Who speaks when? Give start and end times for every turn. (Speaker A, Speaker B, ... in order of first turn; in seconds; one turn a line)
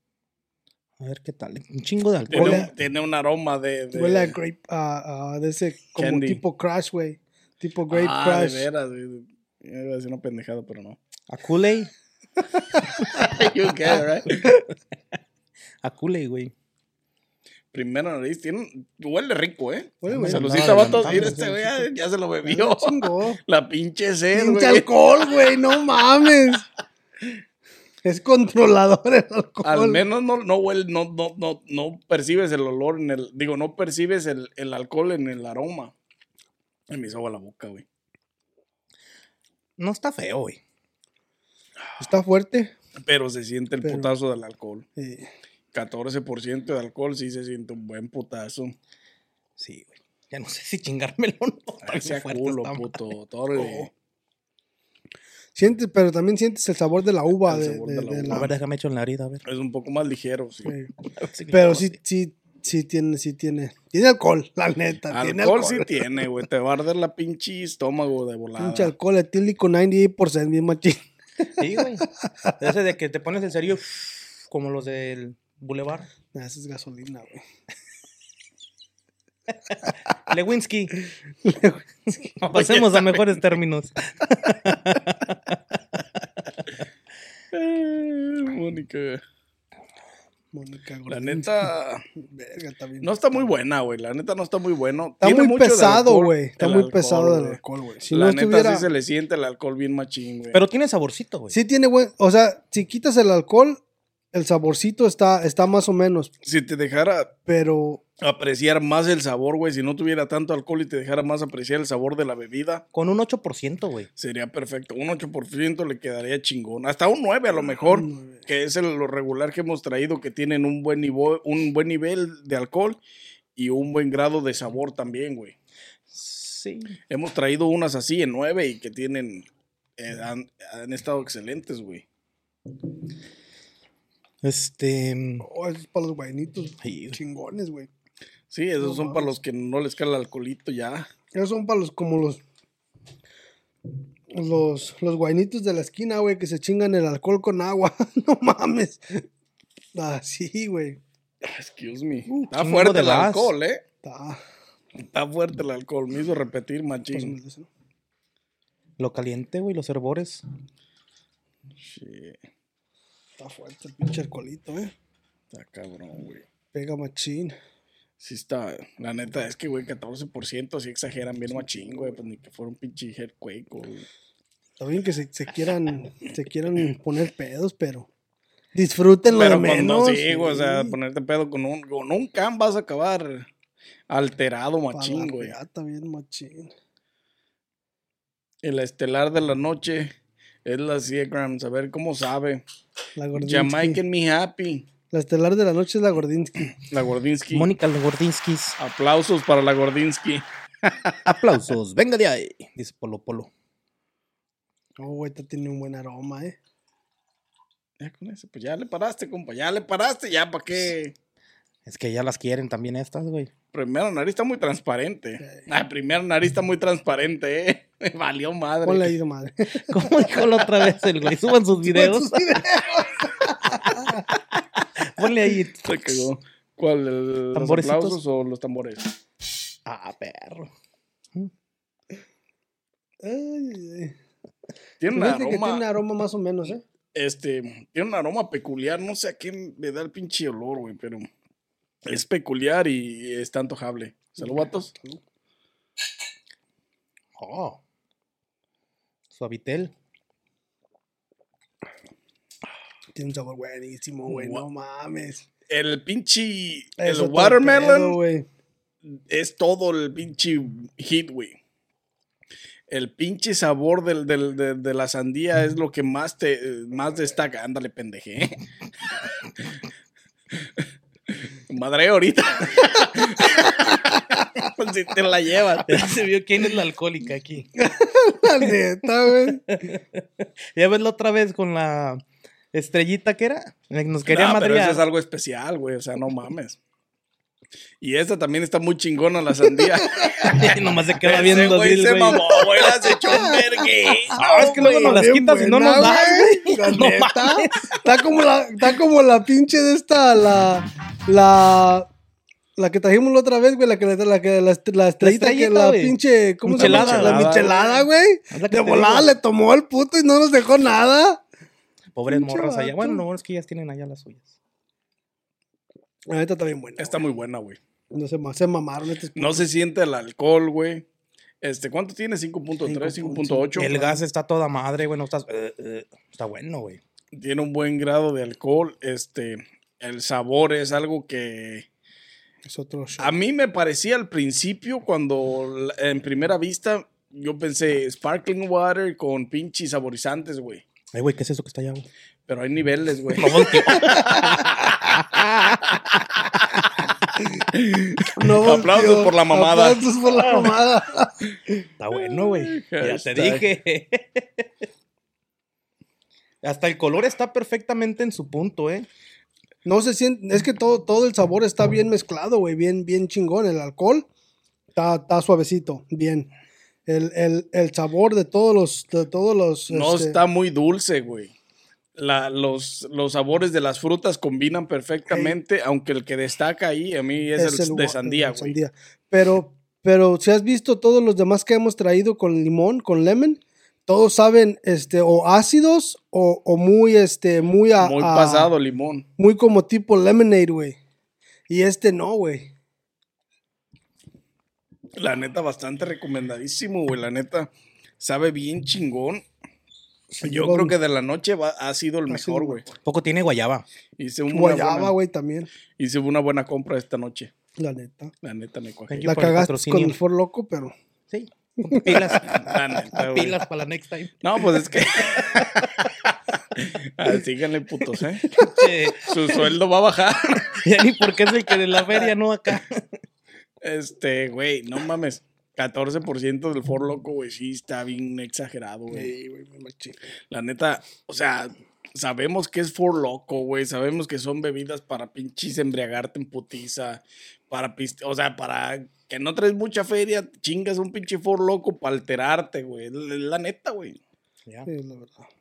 Speaker A: 1.0-2.7
Speaker B: 2.3-4.3
Speaker C: 2.3-2.7
Speaker C: 3.9-8.7
Speaker B: 6.0-6.4
Speaker B: 7.9-11.0
Speaker A: 11.3-11.9
Speaker B: 13.1-14.6
Speaker A: 15.8-16.5
Speaker B: 17.7-24.9
Speaker C: 20.0-21.9
Speaker A: 20.1-21.4
Speaker C: 22.4-23.4
Speaker C: 24.3-26.7
Speaker C: 28.0-30.0
Speaker B: 29.6-35.9
Speaker B: 36.9-37.8
Speaker A: 39.8-40.6
Speaker C: 42.0-42.7
Speaker B: 43.0-44.9
Speaker C: 43.8-44.1
Speaker C: 45.0-45.3
Speaker B: 45.7-48.8
Speaker A: 49.6-53.9
Speaker B: 51.8-53.9
Speaker C: 55.5-58.5
Speaker B: 57.5-58.5
Speaker A: 58.3-59.4
Speaker B: 59.5-60.8
Speaker C: 60.6-60.9
Speaker A: 61.2-62.0
Speaker C: 61.5-66.3
Speaker B: 65.1-68.9
Speaker C: 68.6-72.5
Speaker A: 71.6-72.1
Speaker A: 72.6-76.1
Speaker C: 76.3-77.4
Speaker A: 80.3-80.9
Speaker C: 81.4-82.3
Speaker A: 82.4-85.6
Speaker B: 82.5-83.3
Speaker B: 87.5-89.2
Speaker C: 90.5-91.7
Speaker B: 91.1-92.0
Speaker C: 92.2-93.5
Speaker B: 93.0-100.6
Speaker C: 95.2-98.9
Speaker A: 100.5-101.6
Speaker C: 101.5-103.8
Speaker C: 104.3-106.3
Speaker B: 106.4-107.3
Speaker C: 107.5-108.0
Speaker B: 108.2-112.8
Speaker A: 112.9-114.1
Speaker B: 114.2-123.0
Speaker C: 117.9-118.4
Speaker B: 123.6-125.5
Speaker A: 126.1-127.0
Speaker B: 127.1-129.5
Speaker B: 130.0-132.1
Speaker A: 134.4-135.5
Speaker C: 135.4-137.9
Speaker A: 136.8-137.2
Speaker B: 138.5-141.1
Speaker C: 138.8-139.3
Speaker C: 141.3-142.4
Speaker C: 144.3-149.2
Speaker C: 149.9-151.0
Speaker B: 151.4-153.8
Speaker A: 152.5-153.5
Speaker C: 154.0-154.4
Speaker B: 155.0-157.4
Speaker C: 157.1-157.7
Speaker A: 159.0-160.4
Speaker B: 161.8-162.4
Speaker C: 163.4-164.9
Speaker B: 165.5-166.4
Speaker C: 166.7-167.6
Speaker B: 168.2-174.1
Speaker C: 171.6-172.2
Speaker C: 174.8-178.1
Speaker C: 178.8-181.0
Speaker B: 179.3-183.5
Speaker B: 184.1-185.6
Speaker C: 184.9-186.7
Speaker B: 188.6-190.1
Speaker B: 190.7-192.6
Speaker C: 193.2-194.0
Speaker B: 193.4-194.9
Speaker C: 195.1-196.8
Speaker B: 196.8-197.7
Speaker A: 197.5-198.8
Speaker B: 198.8-201.2
Speaker A: 201.3-203.5
Speaker C: 205.0-206.6
Speaker B: 208.0-211.1
Speaker A: 211.9-213.5
Speaker B: 213.7-219.1
Speaker C: 218.8-220.4
Speaker A: 219.9-222.6
Speaker C: 221.8-224.2
Speaker A: 223.7-224.1
Speaker A: 225.0-226.3
Speaker B: 225.9-229.1
Speaker A: 227.5-228.2
Speaker A: 229.9-230.7
Speaker C: 233.2-234.2
Speaker B: 235.0-235.8
Speaker C: 235.1-236.8
Speaker B: 237.2-241.3
Speaker B: 242.1-244.9
Speaker C: 244.4-245.2
Speaker A: 247.4-247.8
Speaker A: 249.3-249.9
Speaker C: 253.2-255.4
Speaker B: 254.3-254.6
Speaker B: 255.7-258.2
Speaker C: 257.0-258.5
Speaker B: 259.1-261.6
Speaker B: 262.9-268.6
Speaker B: 271.7-276.1
Speaker A: 275.9-277.7
Speaker C: 277.8-279.8
Speaker A: 279.5-285.0
Speaker B: 284.3-286.8
Speaker B: 288.0-295.2
Speaker C: 289.8-290.7
Speaker A: 290.4-293.6
Speaker C: 293.0-302.1
Speaker A: 294.3-298.0
Speaker C: 302.8-311.4
Speaker A: 305.2-307.7
Speaker B: 306.7-308.1
Speaker A: 308.5-309.3
Speaker A: 312.1-314.5
Speaker C: 312.3-313.2
Speaker C: 316.3-317.2
Speaker B: 317.0-317.8
Speaker C: 318.1-319.7
Speaker B: 319.4-321.1
Speaker B: 321.6-323.9
Speaker C: 322.8-324.2
Speaker A: 323.8-327.0
Speaker B: 327.3-331.9
Speaker C: 332.7-333.4
Speaker B: 333.2-340.8
Speaker A: 341.1-342.1
Speaker B: 342.5-346.6
Speaker A: 343.4-345.8
Speaker C: 343.9-344.4
Speaker B: 347.7-350.1
Speaker C: 348.4-351.7
Speaker A: 352.0-354.9
Speaker B: 352.2-353.7
Speaker A: 356.6-359.1
Speaker C: 359.9-364.3
Speaker C: 364.9-366.5
Speaker C: 367.1-370.4
Speaker B: 369.9-371.5
Speaker B: 372.2-378.8
Speaker C: 375.3-375.6
Speaker C: 377.6-388.7
Speaker B: 388.0-389.3
Speaker C: 389.4-391.0
Speaker C: 391.7-392.7
Speaker B: 395.2-397.7
Speaker B: 398.2-399.4
Speaker C: 400.3-401.0
Speaker B: 400.4-402.9
Speaker C: 402.3-402.9
Speaker A: 403.0-403.9
Speaker B: 404.2-405.1
Speaker C: 404.5-405.7
Speaker B: 406.0-407.5
Speaker C: 407.8-408.3
Speaker B: 408.4-409.3
Speaker A: 409.1-410.2
Speaker C: 409.2-410.9
Speaker A: 411.3-414.4
Speaker C: 411.8-412.6
Speaker B: 412.4-413.6
Speaker B: 414.4-416.1
Speaker A: 415.4-416.1
Speaker B: 416.8-418.6
Speaker C: 418.5-418.9
Speaker A: 418.5-419.4
Speaker B: 419.2-420.7
Speaker A: 420.6-423.2
Speaker B: 423.8-429.3
Speaker C: 429.1-430.2
Speaker B: 430.5-444.2
Speaker C: 444.9-445.5